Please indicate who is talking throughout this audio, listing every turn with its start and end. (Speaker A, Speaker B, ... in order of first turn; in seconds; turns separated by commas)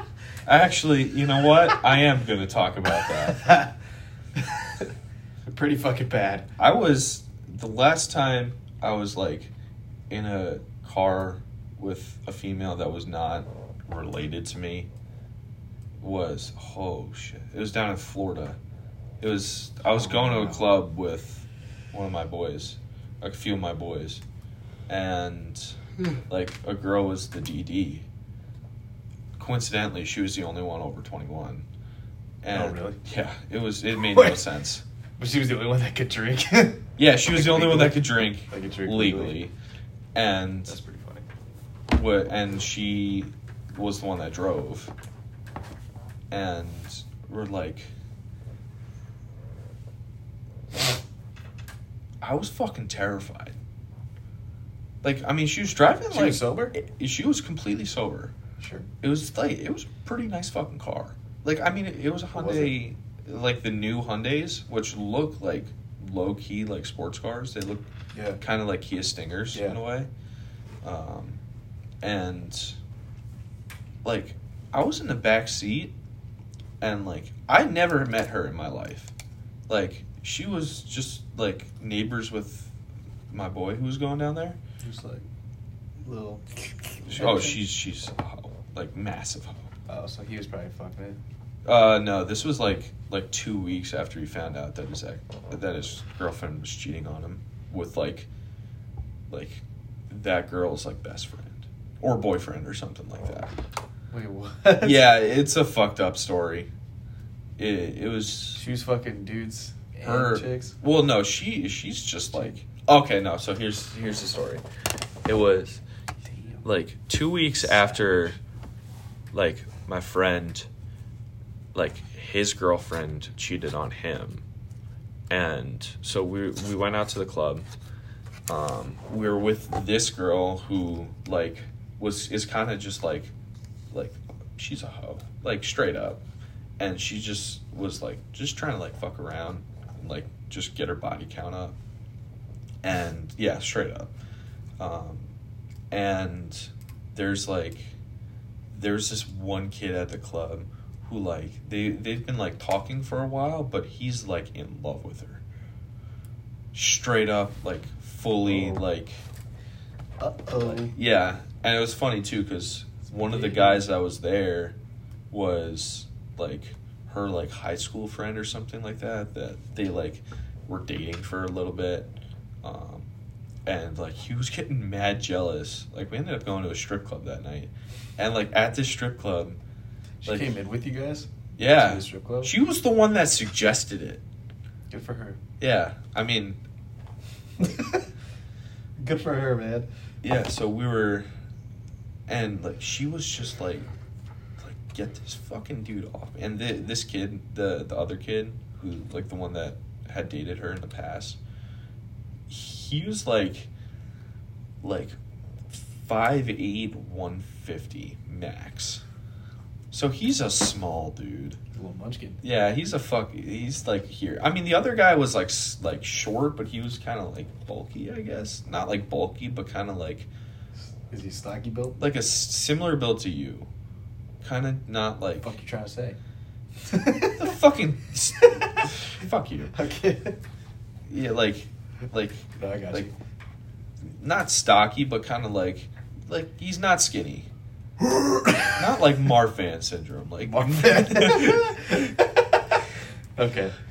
Speaker A: 0.5-3.5, Speaker B: 3.3-3.7, Speaker B: 4.4-4.9, Speaker B: 5.5-6.5, Speaker A: 6.6-9.5, Speaker A: 10.1-14.9, Speaker A: 16.0-18.6, Speaker A: 19.2-24.2, Speaker B: 19.9-20.7, Speaker A: 24.9-25.8, Speaker A: 26.3-28.1, Speaker A: 29.4-31.7, Speaker A: 32.4-34.8, Speaker B: 32.5-33.0, Speaker B: 34.0-34.4, Speaker B: 35.2-39.4, Speaker A: 37.0-39.5, Speaker A: 40.1-40.8, Speaker B: 40.7-41.3, Speaker A: 41.9-44.9, Speaker A: 46.3-47.9, Speaker A: 50.7-51.0, Speaker A: 52.2-53.6, Speaker A: 55.0-58.3, Speaker B: 56.1-56.8, Speaker B: 58.6-58.9, Speaker A: 59.0-67.9, Speaker B: 62.3-62.8, Speaker B: 68.1-68.4, Speaker A: 68.4-70.1, Speaker B: 69.5-69.8, Speaker A: 70.8-71.4, Speaker A: 72.0-72.8, Speaker A: 74.0-76.0, Speaker A: 76.8-79.1, Speaker A: 79.7-82.7, Speaker A: 83.3-84.6, Speaker B: 84.8-85.2, Speaker B: 86.0-86.5, Speaker B: 87.0-87.6, Speaker A: 87.0-89.7, Speaker B: 89.9-91.2, Speaker A: 91.7-98.3, Speaker A: 99.3-103.5, Speaker B: 104.1-105.1, Speaker A: 104.8-106.7, Speaker A: 107.6-108.7, Speaker B: 108.5-110.8, Speaker A: 110.0-114.6, Speaker A: 115.2-115.8, Speaker B: 116.2-116.7, Speaker A: 116.6-118.4, Speaker B: 117.6-118.3, Speaker A: 119.3-120.7, Speaker A: 121.7-124.5, Speaker A: 125.3-127.7, Speaker A: 128.5-133.3, Speaker A: 133.9-136.2, Speaker A: 136.8-141.8, Speaker A: 142.8-144.2, Speaker A: 144.8-145.3, Speaker A: 145.9-148.0, Speaker A: 148.7-155.4, Speaker A: 156.7-159.2, Speaker B: 158.5-158.8, Speaker B: 160.2-160.9, Speaker A: 160.6-164.8, Speaker B: 163.1-163.8, Speaker A: 165.3-173.1, Speaker A: 173.7-179.6, Speaker B: 180.2-182.5, Speaker A: 180.2-180.6, Speaker A: 181.6-184.2, Speaker B: 184.9-185.4, Speaker A: 185.6-186.6, Speaker B: 187.6-188.1, Speaker B: 189.0-189.9, Speaker A: 190.2-191.3, Speaker A: 192.3-193.9, Speaker A: 194.6-201.4, Speaker A: 202.5-203.7, Speaker A: 204.8-205.2, Speaker A: 205.7-209.0, Speaker A: 209.9-211.6, Speaker B: 211.7-212.4, Speaker A: 212.4-220.3, Speaker B: 220.9-222.0, Speaker A: 222.0-223.7, Speaker A: 224.4-225.5, Speaker B: 225.4-226.2, Speaker B: 226.9-227.5, Speaker A: 227.4-229.7, Speaker B: 228.4-228.8, Speaker B: 229.7-230.4, Speaker A: 231.1-233.1, Speaker B: 232.6-233.2, Speaker A: 234.0-237.5, Speaker B: 238.0-238.8, Speaker A: 238.8-242.1, Speaker B: 240.4-242.8, Speaker B: 243.4-243.8